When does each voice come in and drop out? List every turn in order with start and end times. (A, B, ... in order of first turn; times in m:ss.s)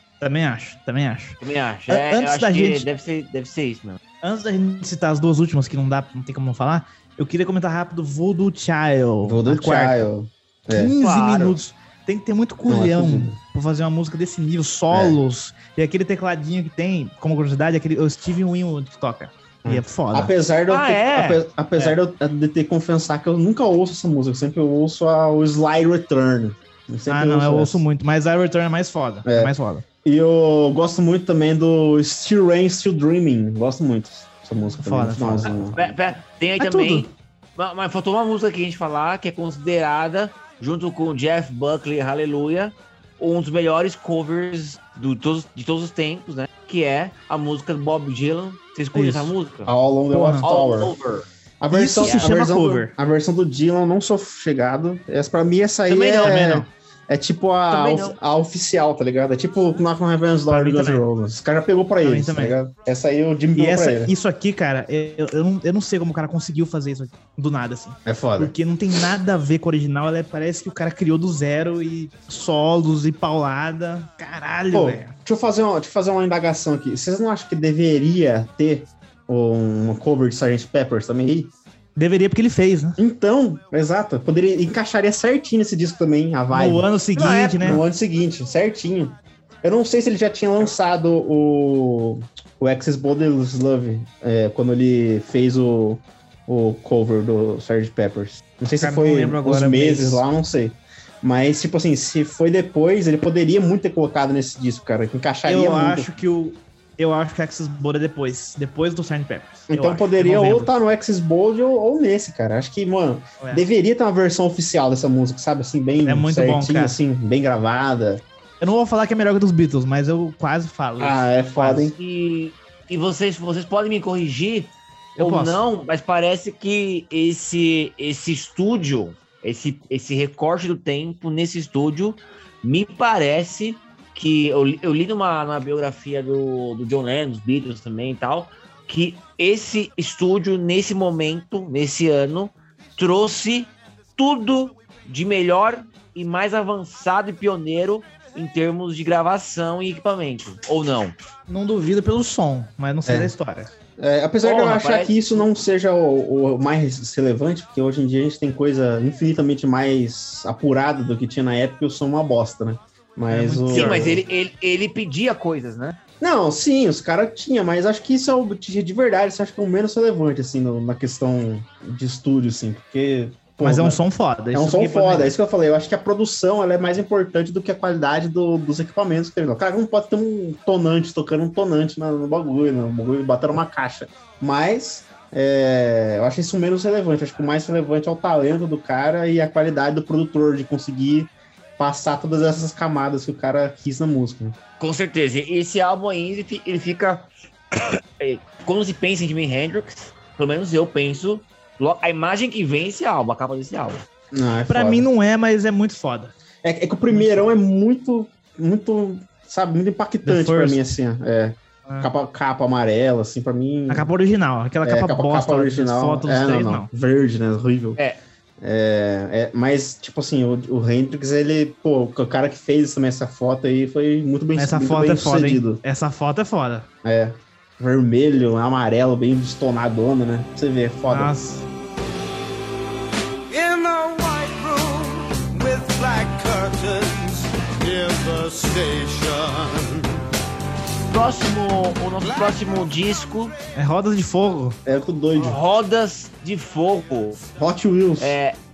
0:00.2-0:02.9 A
0:01.4-0:04.0 B
0:04.2-0:10.1 A
0:09.2-0:10.9 C
0:10.7-0:20.3 A
0:11.0-0:11.6 B
0:12.7-0:13.4 C
0:14.9-0:15.2 C
0:19.6-0:27.8 C
0:20.7-0:21.2 B
0:21.0-0:22.0 A
0:27.1-0:29.8 A
0:29.2-0:29.5 C
0:30.0-0:35.8 C
0:34.8-0:35.6 A
0:35.7-0:49.7 B
0:36.6-0:37.1 A
0:48.9-0:49.3 A
0:49.6-0:50.9 C
0:50.1-0:50.5 A
0:50.4-0:51.3 B
0:51.6-1:04.1 C
0:51.7-0:52.9 A
0:55.9-0:56.4 B
0:56.2-0:56.7 A
0:57.7-0:58.2 B
1:00.5-1:01.0 A
1:02.0-1:02.6 A
1:03.6-1:15.1 A
1:08.0-1:08.5 C
1:14.7-1:21.5 C
1:22.0-1:23.0 A
1:23.0-1:46.1 C
1:26.5-1:27.8 A
1:27.2-1:27.5 B
1:38.8-1:40.2 A
1:45.4-1:50.7 A
1:49.7-1:58.2 C
1:53.4-1:53.6 A
1:56.0-1:57.0 A
1:58.6-2:01.9 A
2:01.0-2:02.0 C
2:02.0-2:31.1 B
2:05.2-2:05.6 A
2:31.5-2:33.7 A
2:33.0-2:33.3 C
2:34.0-2:44.2 C
2:34.4-2:35.4 B
2:43.3-2:44.1 A
2:43.7-2:46.0 B
2:46.2-2:54.0 C
2:53.6-2:55.3 A
2:54.5-3:14.6 C
3:14.8-3:24.0 B
3:24.3-3:25.1 C
3:24.7-3:26.3 A
3:26.6-3:34.1 C
3:27.1-3:27.5 A
3:30.2-3:30.9 A
3:33.9-3:36.9 A
3:34.8-3:38.0 C
3:38.6-3:45.8 C
3:44.6-3:46.9 A
3:47.0-3:51.3 C
3:51.1-3:51.6 A
3:53.5-4:00.1 D
4:01.1-4:03.5 B
4:02.2-4:02.9 D
4:03.7-4:04.8 A
4:04.8-4:05.6 C
4:05.4-4:07.4 B
4:07.6-4:08.4 C
4:08.2-4:08.5 B